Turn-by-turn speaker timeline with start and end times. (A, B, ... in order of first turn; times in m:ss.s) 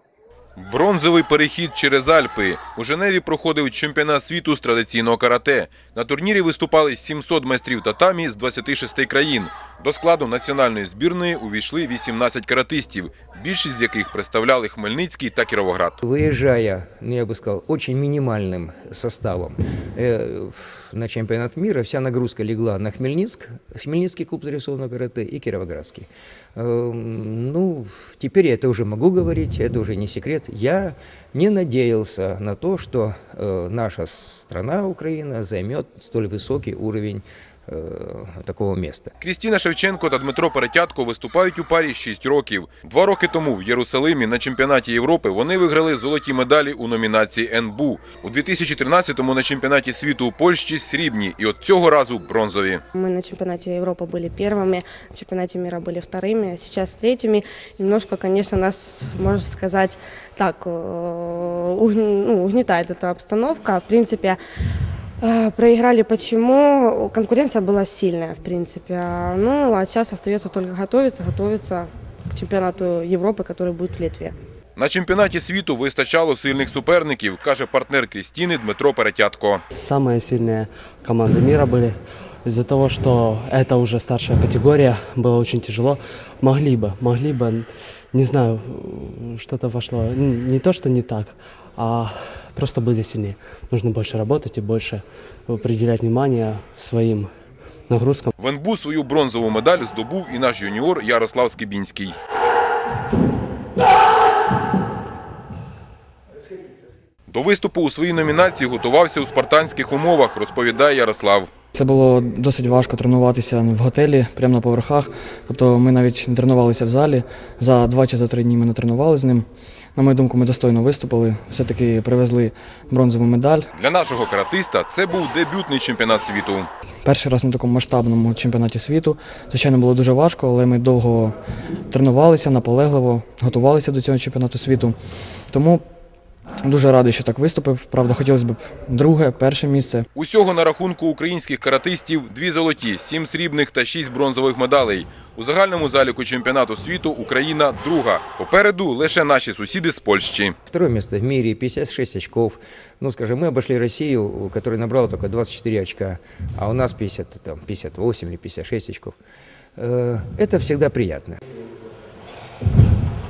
0:00.6-0:16.0 A
0:16.0-0:39.1 B
0:39.2-0:52.8 A
0:52.9-1:04.4 C
1:05.2-1:14.4 C
1:14.8-1:19.6 A
1:19.7-1:37.3 D
1:37.9-1:38.3 D
1:38.4-1:42.2 A
1:47.3-1:51.5 A
1:51.7-2:03.7 E
2:03.7-2:06.7 A
2:07.0-2:11.4 E
2:11.9-2:15.8 E
2:16.6-2:20.1 E
2:20.2-2:30.6 A
2:30.7-2:39.2 B
2:39.8-2:41.4 B